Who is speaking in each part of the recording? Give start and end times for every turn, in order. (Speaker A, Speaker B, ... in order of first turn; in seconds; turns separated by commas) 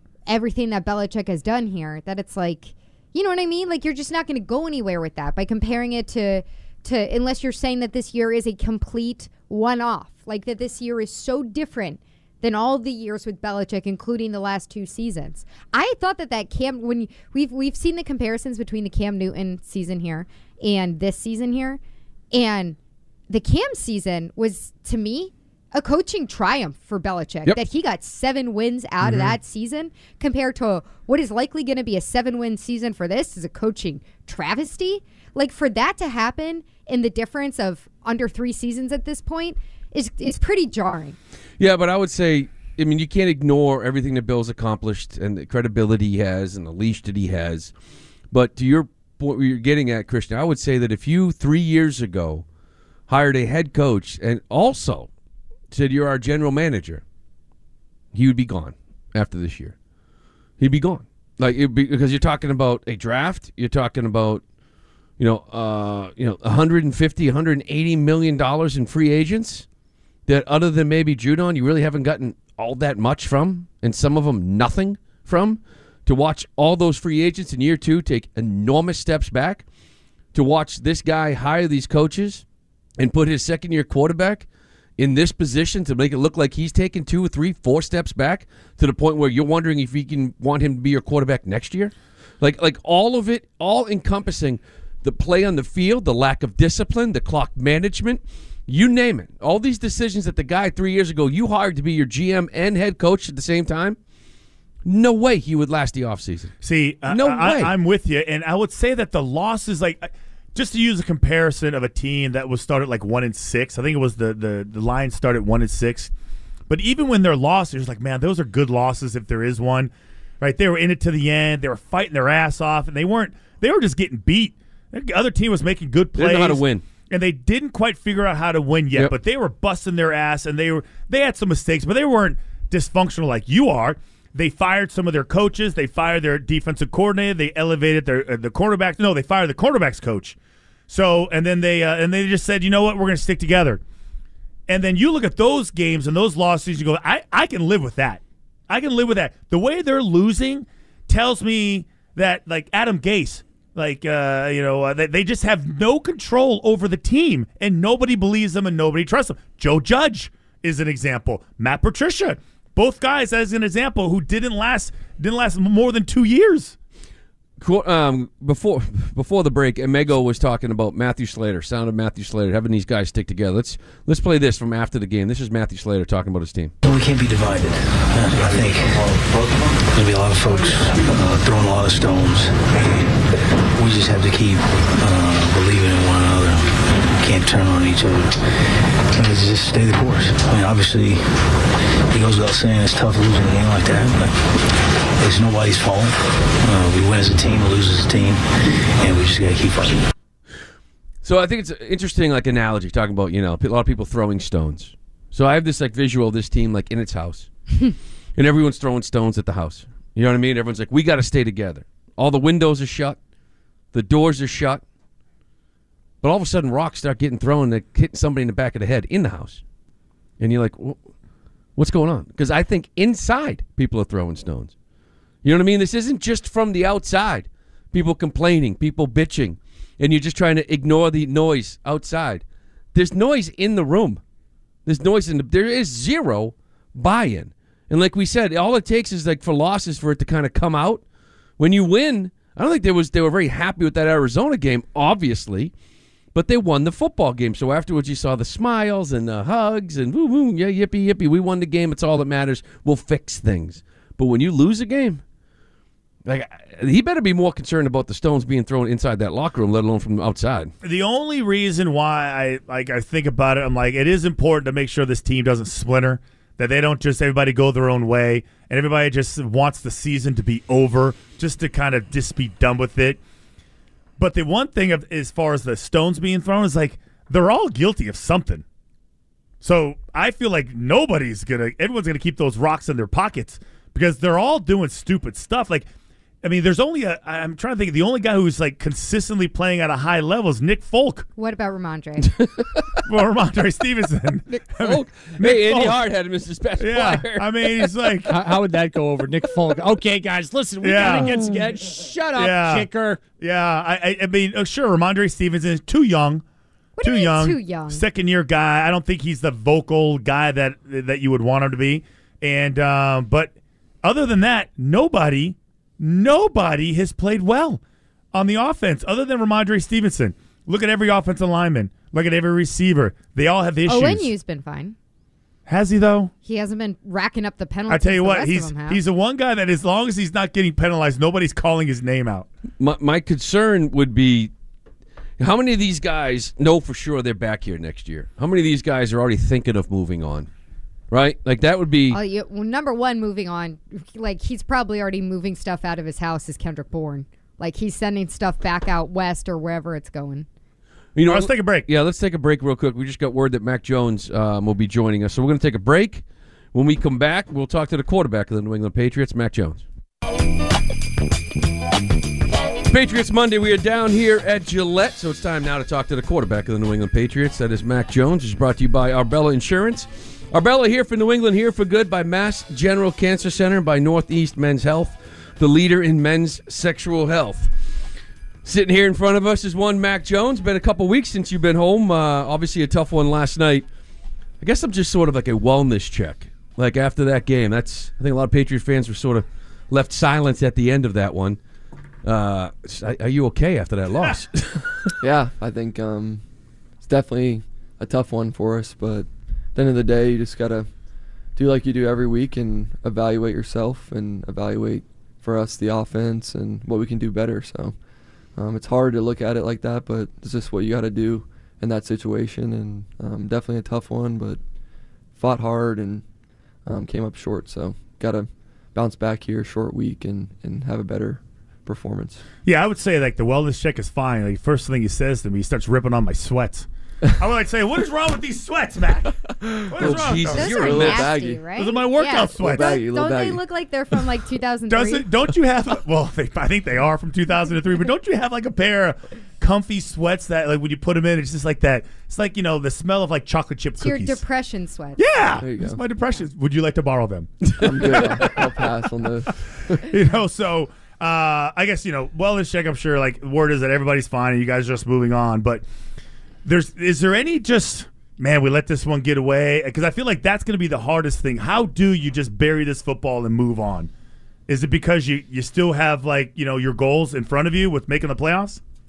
Speaker A: 0.3-21.8, Speaker A: 22.3-22.8, Speaker A: 23.3-41.2, Speaker B: 29.0-29.3, Speaker C: 41.6-47.7, Speaker C: 48.3-52.4, Speaker C: 53.1-55.1, Speaker C: 55.7-57.0, Speaker C: 58.1-59.7, Speaker C: 60.6-64.4, Speaker C: 65.2-69.7, Speaker C: 70.3-79.6, Speaker C: 80.3-82.4, Speaker C: 83.0-84.5, Speaker C: 85.0-104.0, Speaker C: 104.8-106.5, Speaker B: 106.6-116.1, Speaker C: 107.1-107.7, Speaker B: 116.7-140.3, Speaker C: 126.2-126.8, Speaker B: 140.9-143.8, Speaker B: 144.7-166.7, Speaker C: 167.6-176.7, Speaker D: 176.8-179.2, Speaker D: 179.8-183.2, Speaker D: 183.7-188.4, Speaker D: 189.1-191.3, Speaker D: 192.1-194.4, Speaker D: 195.2-198.4, Speaker D: 199.0-200.0, Speaker C: 201.2-207.5, Speaker C: 208.3-213.2, Speaker C: 213.9-214.8, Speaker C: 216.2-219.6, Speaker C: 220.4-221.0, Speaker C: 221.8-224.7, Speaker C: 225.4-234.2, Speaker C: 234.8-241.0, Speaker C: 241.6-245.7, Speaker C: 246.3-255.2, Speaker C: 256.2-260.7, Speaker B: 260.8-273.2, Speaker B: 274.2-278.6, Speaker B: 279.6-285.9, Speaker B: 286.4-291.3, Speaker A: 291.4-292.3, Speaker C: 292.4-293.0, Speaker B: 293.1-295.9, Speaker C: 294.6-297.9, Speaker B: 296.8-298.3, Speaker E: 298.2-303.2, Speaker B: 300.8-301.4, Speaker B: 302.4-306.4, Speaker A: 307.0-308.0, Speaker B: 307.0-317.8, Speaker B: 318.3-324.3, Speaker A: 323.8-324.9, Speaker B: 325.6-326.3, Speaker A: 326.4-329.0, Speaker B: 327.9-332.5, Speaker C: 332.8-334.5, Speaker C: 335.4-340.5, Speaker C: 341.1-342.2, Speaker A: 342.1-350.5, Speaker C: 351.1-359.8, Speaker B: 351.2-351.9, Speaker C: 362.9-377.7, Speaker C: 378.6-383.9, Speaker C: 384.6-391.6, Speaker C: 392.2-395.1, Speaker F: 395.2-396.4, Speaker F: 397.0-400.9, Speaker F: 401.6-407.9, Speaker F: 408.6-414.6, Speaker F: 415.4-416.2, Speaker F: 416.9-422.4, Speaker B: 422.6-426.9, Speaker B: 427.4-429.3, Speaker F: 429.6-431.7, Speaker B: 429.9-431.1, Speaker C: 430.0-431.3, Speaker A: 430.5-435.3, Speaker B: 431.7-433.0, Speaker F: 432.5-433.6, Speaker B: 434.9-444.4, Speaker A: 444.0-445.2, Speaker B: 445.2-448.7, Speaker F: 445.6-446.0, Speaker F: 447.8-450.0, Speaker B: 450.0-455.8, Speaker B: 456.6-464.1, Speaker B: 464.7-468.8